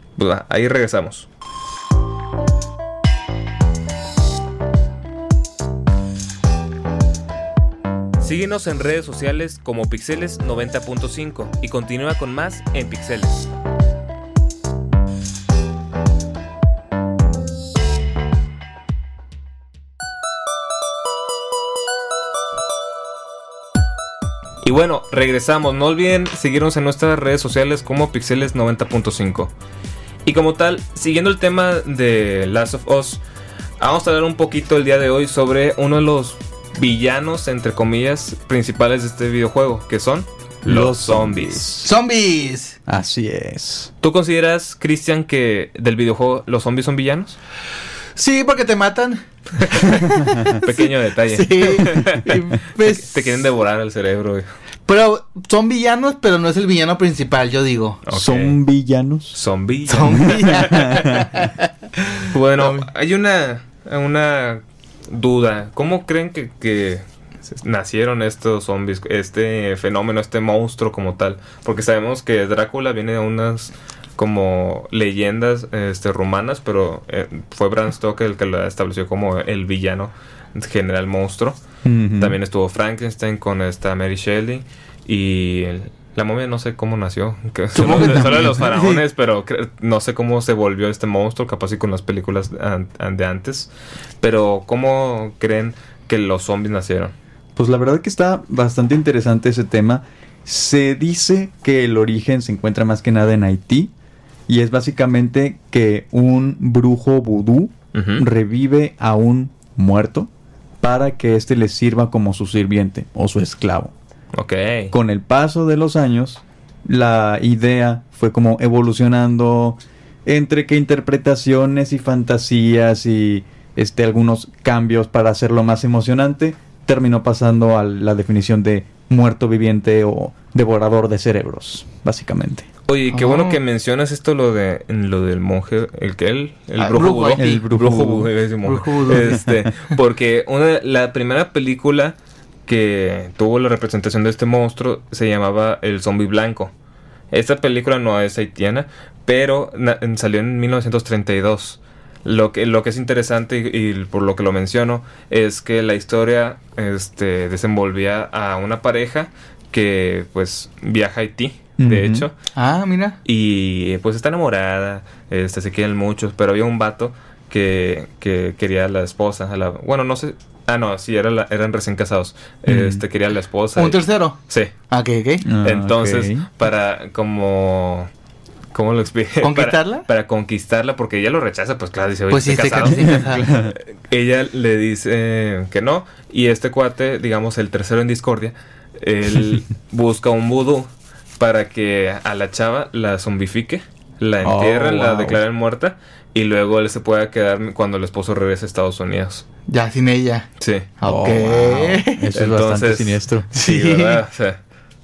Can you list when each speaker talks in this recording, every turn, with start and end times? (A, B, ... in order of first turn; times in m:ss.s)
0:00.2-0:01.3 A
0:08.2-0:13.4 A
0:24.6-0:29.5 A
0:30.2-0:33.2 A
0:33.8-0:41.7 A
0:40.6-0:41.9 B
0:41.8-0:42.8 C
0:42.9-0:43.9 B
0:44.0-0:47.4 A
0:48.2-0:53.3 C
0:49.6-0:54.5 A
0:54.9-0:58.0 C
0:58.1-0:58.6 A
0:58.1-0:59.4 B
0:59.3-1:01.2 A
0:59.9-1:02.9 C
1:00.1-1:01.3 B
1:02.2-1:21.6 A
1:21.8-1:22.4 B
1:22.2-1:33.7 A
1:27.8-1:29.0 C
1:28.0-1:28.4 B
1:34.2-1:37.1 A
1:37.6-1:43.9 B
1:44.5-1:50.3 B
1:47.9-1:48.2 A
1:50.8-1:53.9 B
1:54.3-1:54.9 A
1:54.9-2:12.7 B
2:12.9-2:22.2 A
2:13.1-2:13.6 C
2:16.8-2:17.6 C
2:17.4-2:18.3 B
2:18.6-2:19.4 C
2:22.7-2:26.7 A
2:27.3-2:42.3 A
2:41.8-2:42.3 B
2:42.6-2:43.2 C
2:43.2-2:54.7 A
2:52.7-2:53.0 B
2:53.8-2:54.4 C
2:54.9-2:55.5 C
2:55.4-2:56.5 B
2:55.6-2:58.1 A
2:58.7-3:10.9 A
2:59.4-3:00.1 C
3:02.3-3:03.5 C
3:03.1-3:03.8 B
3:11.4-3:19.4 A
3:14.4-3:15.4 B
3:19.7-3:20.5 C
3:20.6-3:20.9 A
3:21.0-3:22.3 C
3:21.0-3:23.5 B
3:22.3-3:24.6 A
3:23.5-3:24.2 C